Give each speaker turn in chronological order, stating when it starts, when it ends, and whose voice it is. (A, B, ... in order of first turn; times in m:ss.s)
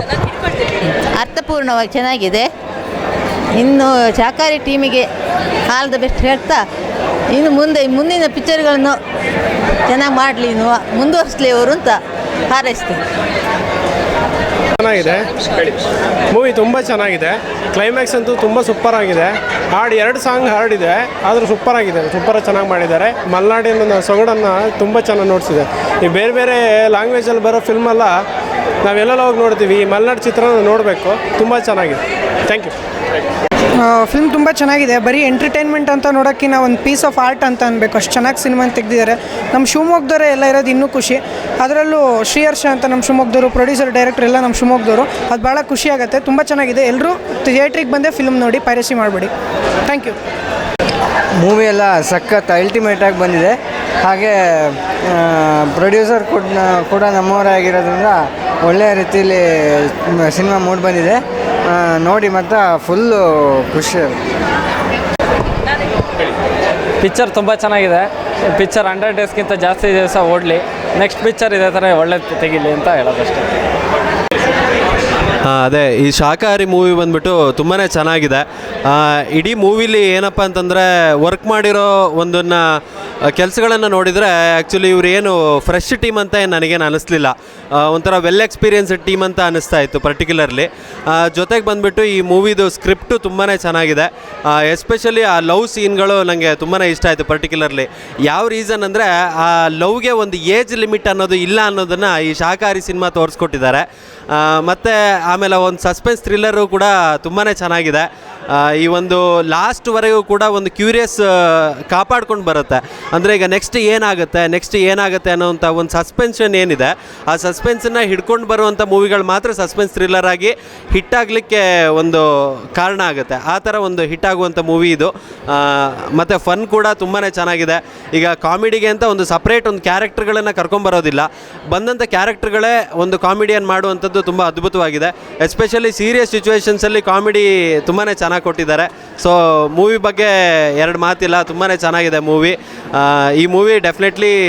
0:01.2-0:02.5 A
0:03.6-0:05.1 A
0:05.7-0:06.6 A
0:07.3-0:09.0 A
0:09.9-0:12.0 A
0:12.5-0:13.0 A
0:14.8-0:15.2 B
0:16.4-0:28.1 B
0:28.9-0:32.0 B
0:33.8-0:49.3 C
0:49.9-0:50.2 C
0:51.4-1:04.2 D
1:07.0-1:13.5 E
1:15.5-1:22.6 F
1:23.3-2:02.2 F
2:02.8-2:24.4 F